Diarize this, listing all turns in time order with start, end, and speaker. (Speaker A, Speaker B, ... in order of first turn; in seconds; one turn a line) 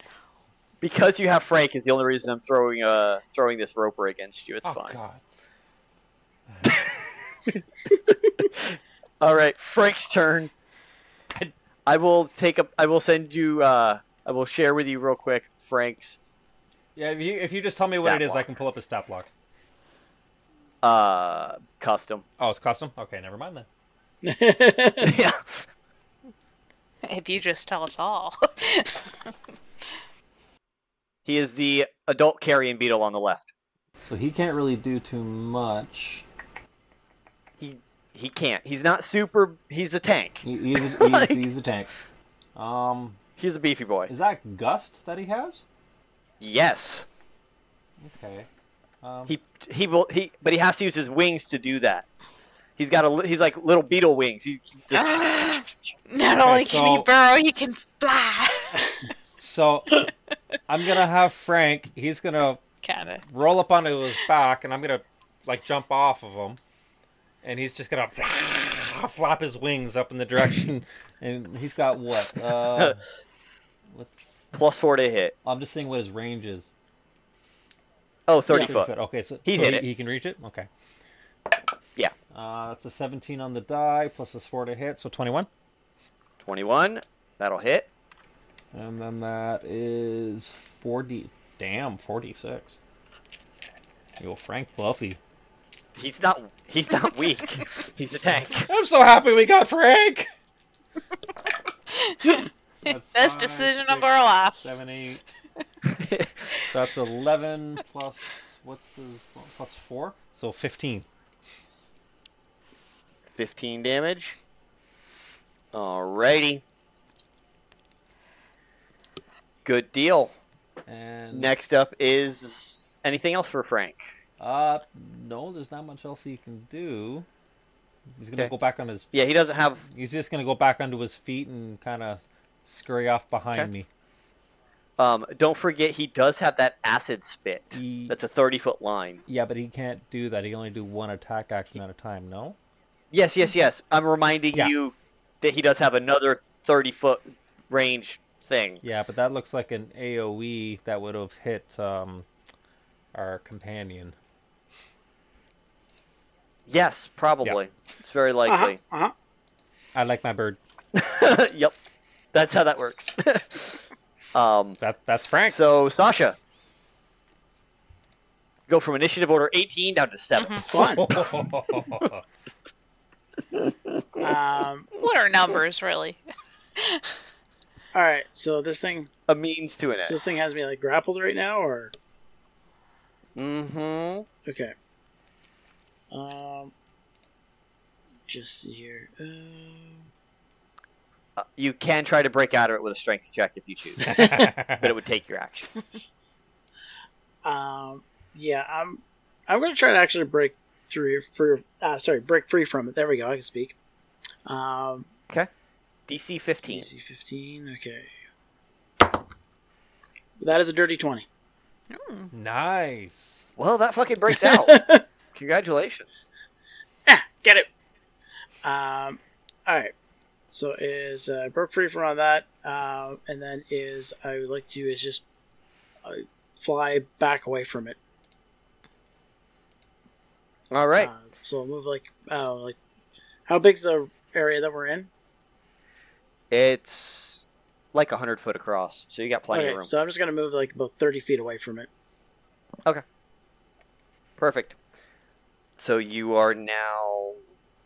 Speaker A: 0.8-5.0
Speaker B: 4.6-5.2
Speaker B: 6.5-6.8
Speaker A: 8.4-10.5
Speaker A: 11.8-16.2
Speaker B: 16.9-19.3
Speaker A: 18.0-18.5
Speaker A: 20.8-22.2
Speaker B: 22.4-23.7
Speaker C: 24.2-25.1
Speaker A: 25.0-25.7
Speaker D: 27.0-29.3
Speaker A: 31.2-33.5
Speaker B: 34.0-36.2
Speaker A: 37.6-41.4
Speaker B: 40.4-41.9
Speaker B: 42.5-43.2
Speaker A: 43.4-44.1
Speaker B: 44.1-45.6
Speaker A: 46.4-47.0
Speaker B: 48.0-48.5
Speaker B: 49.0-49.3
Speaker A: 49.3-52.0
Speaker A: 52.8-55.9
Speaker D: 54.9-59.1
Speaker B: 56.4-57.1
Speaker B: 59.4-60.1
Speaker B: 60.7-62.6
Speaker D: 62.8-63.2
Speaker B: 63.3-66.6
Speaker B: 67.4-73.0
Speaker A: 72.6-73.0
Speaker B: 73.9-74.5
Speaker A: 74.5-75.3
Speaker B: 75.4-76.7
Speaker A: 78.3-78.9
Speaker B: 78.5-80.7
Speaker A: 79.4-79.8
Speaker B: 82.3-85.5
Speaker A: 86.4-87.9
Speaker B: 88.7-92.8
Speaker B: 94.2-95.2
Speaker A: 96.0-98.7
Speaker B: 98.5-100.3
Speaker D: 101.9-104.6
Speaker B: 102.8-104.1
Speaker B: 104.6-105.2
Speaker A: 105.9-106.5
Speaker B: 106.7-111.1
Speaker A: 113.3-114.4
Speaker A: 115.7-116.6
Speaker A: 119.6-120.3
Speaker B: 120.9-121.5
Speaker A: 121.3-124.0
Speaker B: 124.4-127.3
Speaker B: 128.2-129.1
Speaker A: 129.1-129.8
Speaker B: 129.8-133.9
Speaker A: 135.0-139.2
Speaker B: 137.7-138.2
Speaker B: 139.3-142.6
Speaker A: 143.1-148.8
Speaker B: 148.8-152.3
Speaker B: 153.1-154.2
Speaker A: 156.7-158.8
Speaker C: 158.4-159.1
Speaker B: 159.9-160.6
Speaker A: 160.9-161.8
Speaker A: 162.3-166.4
Speaker B: 164.8-165.6
Speaker A: 168.7-172.1
Speaker D: 170.3-170.7
Speaker C: 170.6-171.1
Speaker B: 170.7-172.2
Speaker A: 173.5-174.3
Speaker C: 174.2-174.9
Speaker D: 174.9-176.2
Speaker D: 176.8-177.1
Speaker C: 177.9-179.1
Speaker A: 179.3-180.2
Speaker C: 180.0-181.9
Speaker A: 183.3-184.3
Speaker C: 184.4-184.7
Speaker C: 186.1-186.7
Speaker C: 188.3-190.1
Speaker A: 191.4-194.1
Speaker B: 194.0-194.9
Speaker C: 194.1-194.5
Speaker A: 194.8-195.7
Speaker C: 197.4-203.8
Speaker C: 204.4-205.1
Speaker A: 206.1-206.9
Speaker C: 206.7-208.1
Speaker C: 210.4-211.3
Speaker D: 211.9-212.3
Speaker B: 212.3-213.5
Speaker A: 213.6-214.8
Speaker C: 214.3-215.0
Speaker A: 215.3-216.2
Speaker C: 217.1-217.7
Speaker C: 218.6-219.9
Speaker C: 220.5-225.2
Speaker C: 226.0-228.0
Speaker A: 230.7-231.1
Speaker C: 231.0-232.8
Speaker C: 233.5-235.1
Speaker A: 236.5-239.9
Speaker C: 239.5-241.9
Speaker A: 244.4-244.8
Speaker A: 245.8-247.4